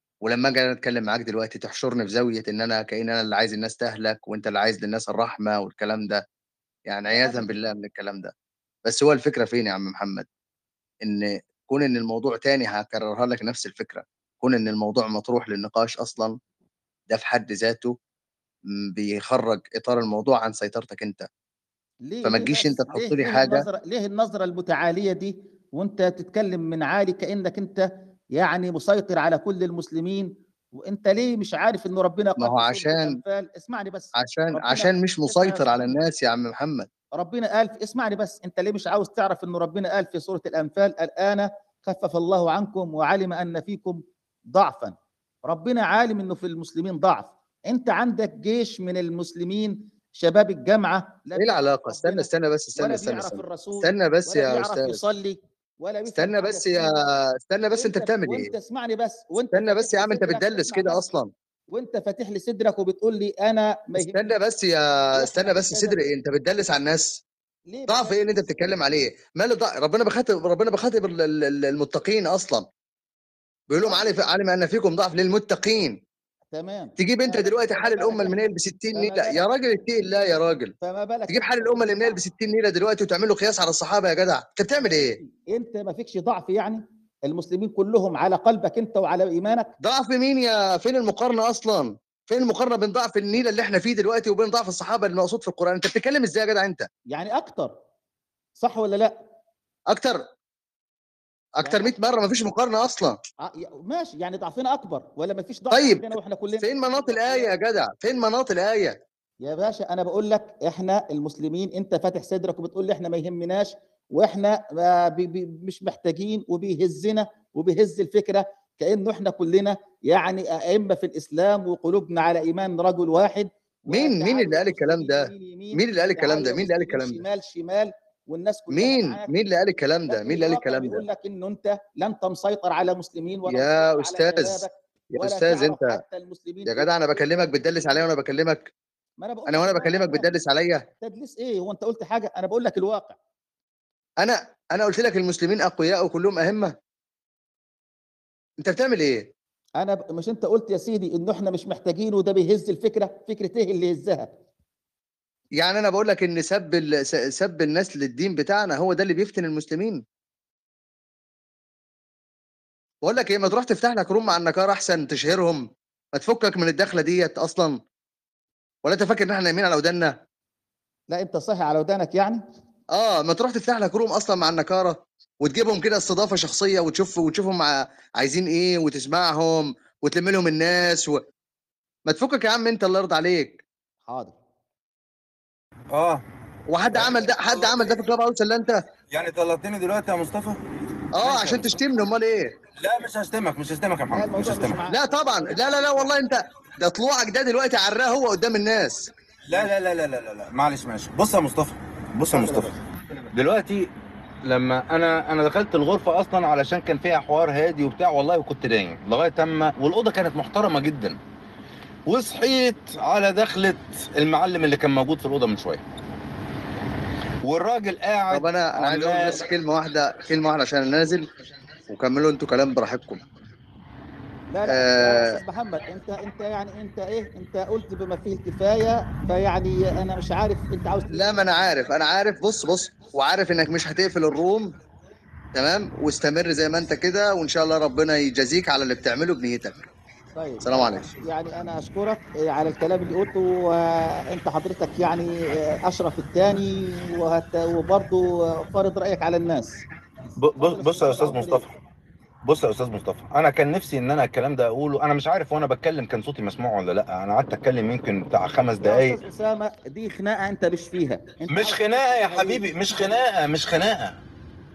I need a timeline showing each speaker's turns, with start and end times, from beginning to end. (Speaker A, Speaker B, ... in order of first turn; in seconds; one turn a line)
Speaker A: 0.2-6.2
Speaker A: 6.9-8.3
Speaker B: 7.1-7.5
Speaker A: 8.8-10.3
Speaker A: 11.0-16.4
Speaker A: 17.1-18.0
Speaker A: 18.7-21.3
Speaker B: 22.0-36.0
Speaker A: 22.2-23.7
Speaker A: 32.4-33.2
Speaker A: 34.1-36.9
Speaker B: 37.2-56.9
Speaker A: 51.4-55.0
Speaker A: 56.1-58.5
Speaker B: 57.7-61.1
Speaker A: 59.5-61.3
Speaker B: 61.7-64.4
Speaker A: 64.0-67.2
Speaker B: 65.2-66.1
Speaker B: 67.7-68.7
Speaker A: 67.9-72.7
Speaker A: 73.7-76.0
Speaker B: 73.8-74.2
Speaker B: 76.5-79.4
Speaker A: 77.0-80.7
Speaker B: 80.8-82.2
Speaker A: 81.3-85.2
Speaker B: 84.8-89.7
Speaker A: 89.8-96.9
Speaker B: 97.1-97.8
Speaker B: 98.6-99.2
Speaker A: 99.9-100.2
Speaker A: 101.6-103.2
Speaker B: 101.6-102.0
Speaker B: 103.4-107.5
Speaker A: 105.7-109.0
Speaker B: 109.4-129.3
Speaker A: 123.9-127.2
Speaker A: 128.7-131.0
Speaker B: 130.1-137.4
Speaker A: 133.5-135.9
Speaker A: 136.7-138.7
Speaker B: 139.2-140.3
Speaker A: 139.5-140.8
Speaker B: 141.0-143.2
Speaker A: 144.2-146.8
Speaker A: 148.6-149.3
Speaker B: 149.8-154.3
Speaker A: 155.6-160.0
Speaker A: 163.0-167.8
Speaker A: 168.8-170.2
Speaker B: 171.1-172.4
Speaker A: 172.9-181.2
Speaker A: 182.1-183.6
Speaker B: 184.1-184.3
Speaker C: 185.9-186.2
Speaker A: 186.7-188.8
Speaker C: 186.9-187.9
Speaker C: 189.1-190.6
Speaker A: 191.2-192.6
Speaker C: 191.2-191.8
Speaker C: 192.8-194.8
Speaker B: 194.1-196.2
Speaker A: 194.9-199.1
Speaker C: 199.5-202.7
Speaker B: 202.3-202.8
Speaker C: 203.3-203.9
Speaker C: 204.5-211.2
Speaker C: 212.1-215.8
Speaker C: 217.4-219.4
Speaker A: 218.3-221.3
Speaker A: 221.9-223.2
Speaker B: 224.5-231.4
Speaker A: 224.7-225.4
Speaker A: 231.1-234.7
Speaker A: 235.5-239.8
Speaker B: 240.4-249.8
Speaker A: 240.6-241.1
Speaker C: 250.4-251.7
Speaker B: 250.6-251.7
Speaker C: 252.4-259.2
Speaker B: 258.8-263.2
Speaker C: 261.5-264.2